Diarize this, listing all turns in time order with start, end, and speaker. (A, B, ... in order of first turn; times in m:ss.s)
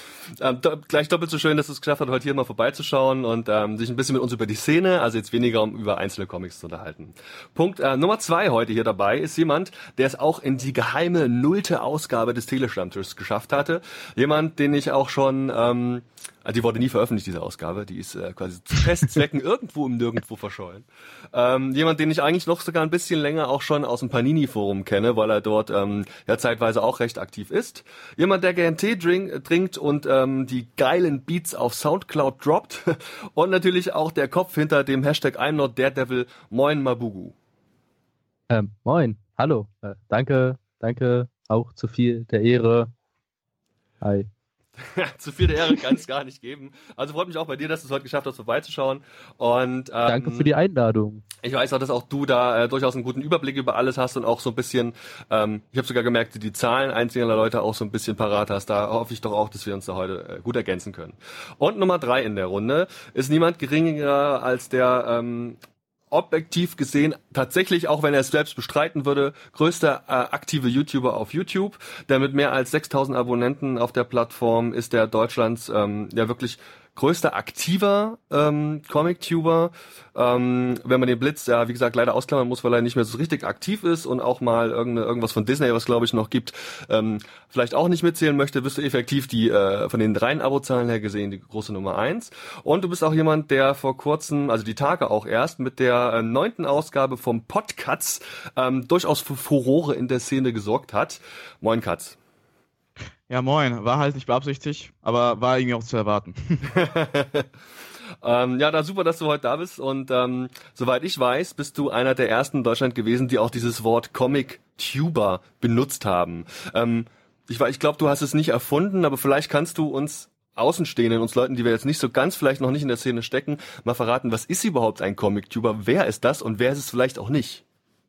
0:00.4-0:37.3 A
0:38.5-0:42.9 B
0:44.0-0:44.3 B
0:44.8-0:50.5 A
0:50.1-0:51.2 B
0:51.4-1:05.6 A
1:06.1-1:42.2 A
1:43.3-1:46.7 C
1:46.7-1:47.5 A
1:48.2-2:07.6 A